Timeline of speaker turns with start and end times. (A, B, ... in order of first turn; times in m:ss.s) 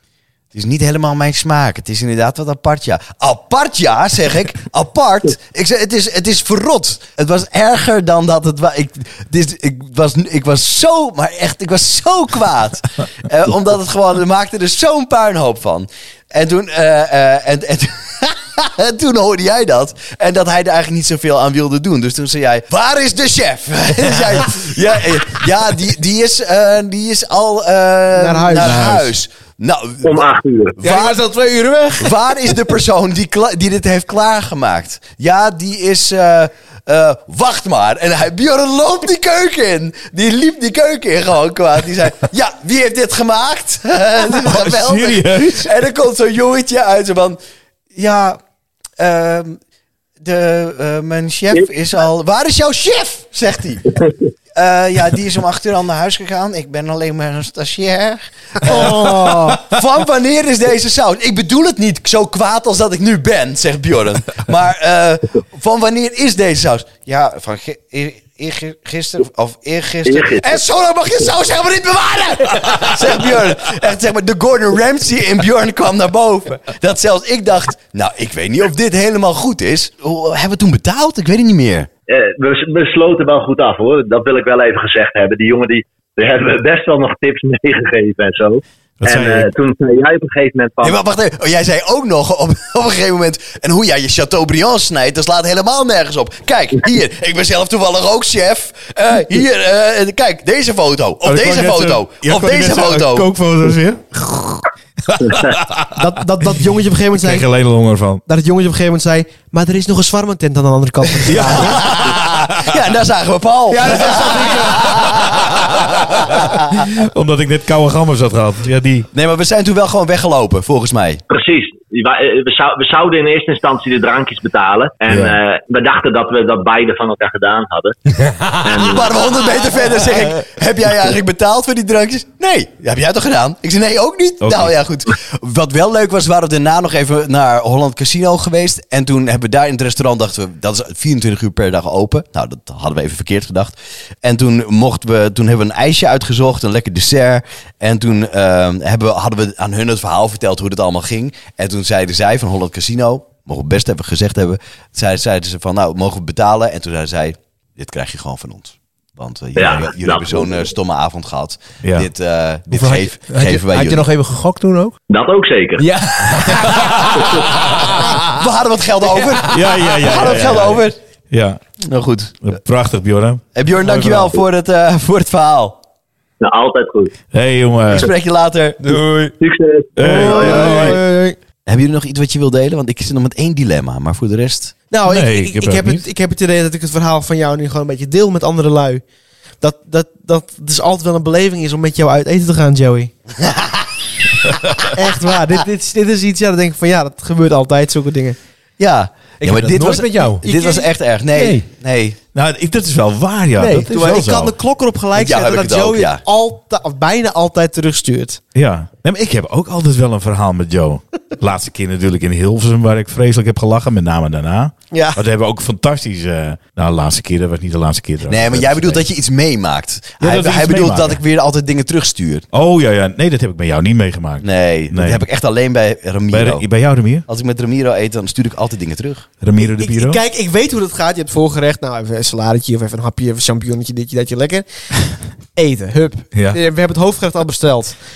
0:00.5-0:31.2 A
0:28.1-0:28.9 B
0:28.7-0:29.0 C
0:30.0-0:30.8 D
0:30.8-0:32.3 E
0:32.0-0:47.4 A
0:44.3-0:45.7 C
0:48.0-0:48.4 A
0:49.0-0:49.6 A
0:50.2-0:53.9 A
0:54.6-1:21.9 A
0:58.6-0:59.6 B
1:10.0-1:10.6 D
1:22.1-1:31.0 D
1:29.0-1:29.5 C
1:30.8-1:43.3 A
1:41.2-1:44.2 C
1:45.1-1:45.9 C
1:45.9-1:47.5 B
1:47.1-1:48.2 C
1:48.3-1:51.8 B
1:51.3-1:52.8 C
1:51.4-1:55.7 A
1:53.7-1:55.8 E
1:56.3-1:59.1 C
1:59.1-2:01.2 A
2:01.3-2:08.0 D
2:05.1-2:05.4 C
2:08.5-2:09.2 D
2:08.8-2:44.0 A
2:14.4-2:14.7 C
2:39.6-2:40.6 D
2:41.8-2:42.1 C
2:42.7-2:45.0 E
2:45.1-2:45.8 D
2:45.8-2:48.4 E
2:48.0-2:51.0 A
2:49.2-2:50.0 E
2:49.5-2:51.6 C
2:51.8-2:52.3 A
2:52.4-2:53.5 C
2:53.6-2:55.8 A
2:53.9-2:54.2 E
2:56.4-2:57.1 D
2:57.3-2:58.1 C
2:57.9-2:59.0 A
2:58.8-2:59.3 E
2:59.4-3:00.9 D
3:00.0-3:01.0 C
3:00.0-3:01.4 B
3:00.2-3:00.9 A
3:01.7-3:04.7 A
3:04.9-3:09.0 B
3:05.1-3:06.0 C
3:09.6-3:13.1 B
3:14.8-3:18.4 B
3:18.8-3:22.2 A
3:19.4-3:20.5 E
3:20.4-3:20.9 B
3:21.3-3:21.7 E
3:22.3-3:24.6 C
3:23.6-3:28.4 B
3:25.2-3:26.2 A
3:28.6-3:39.0 C
3:34.9-3:35.2 B
3:38.3-3:42.5 A
3:40.2-3:41.2 C
3:42.5-3:45.2 C
3:44.4-3:46.6 A
3:46.3-3:47.3 C
3:47.3-3:49.3 A
3:49.4-3:50.2 C
3:49.6-3:54.7 B
3:55.6-3:58.0 B